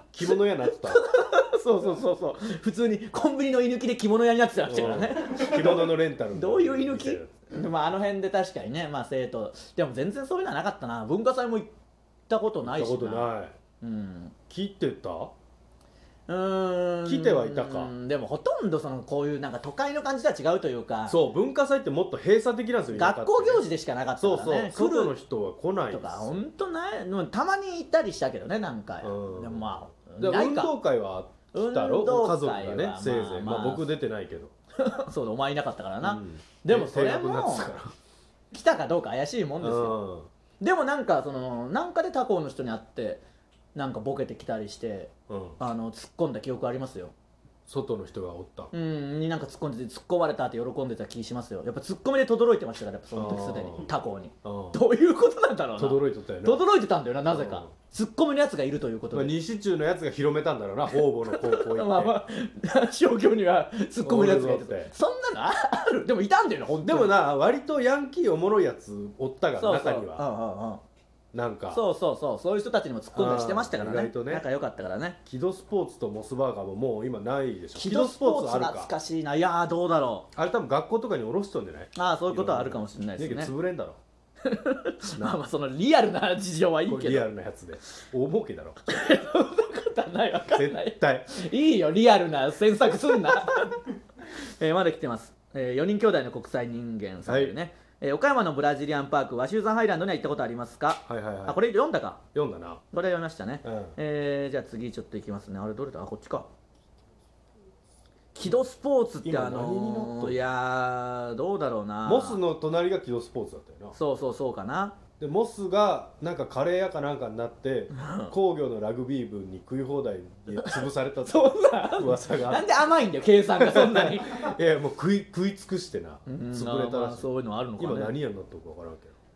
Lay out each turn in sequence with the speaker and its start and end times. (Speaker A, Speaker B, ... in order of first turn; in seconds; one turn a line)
Speaker A: 0.1-1.1
Speaker B: 0.9-11.7
Speaker A: 4.7-7.3
Speaker B: 12.3-13.3
Speaker A: 12.6-13.6
Speaker B: 13.8-14.3
Speaker A: 14.5-15.3
Speaker B: 16.3-21.2
Speaker A: 17.1-17.9
Speaker A: 21.1-23.6
Speaker B: 22.9-25.2
Speaker A: 24.2-26.4
Speaker B: 25.9-30.7
Speaker A: 29.0-34.5
Speaker B: 31.5-33.9
Speaker B: 34.8-37.8
Speaker A: 36.0-37.9
Speaker B: 38.5-40.0
Speaker A: 39.6-40.3
Speaker B: 40.6-43.2
Speaker B: 43.8-47.1
Speaker A: 45.3-45.6
Speaker A: 47.7-48.7
Speaker B: 48.7-59.3
Speaker A: 53.1-53.9
Speaker A: 54.4-54.8
Speaker A: 55.8-56.6
Speaker A: 57.3-57.7
Speaker A: 59.1-62.2
Speaker B: 60.9-67.2
Speaker A: 64.0-64.9
Speaker A: 66.8-70.3
Speaker B: 69.6-70.8
Speaker A: 71.3-71.8
Speaker B: 71.7-75.2
Speaker A: 73.1-74.5
Speaker A: 75.3-78.9
Speaker B: 77.8-80.3
Speaker A: 80.3-84.0
Speaker B: 82.0-83.5
Speaker B: 84.5-87.3
Speaker A: 86.9-88.8
Speaker B: 88.9-102.2
Speaker A: 90.5-91.3
Speaker A: 97.3-97.6
Speaker A: 101.1-101.6
Speaker A: 102.3-102.8
Speaker B: 102.9-106.5
Speaker A: 103.6-104.0
Speaker B: 108.3-112.4
Speaker A: 109.2-110.4
Speaker A: 112.1-114.0
Speaker B: 113.9-115.0
Speaker A: 115.2-122.7
Speaker B: 117.9-118.3
Speaker B: 120.6-124.6
Speaker A: 123.6-129.2
Speaker B: 126.3-128.2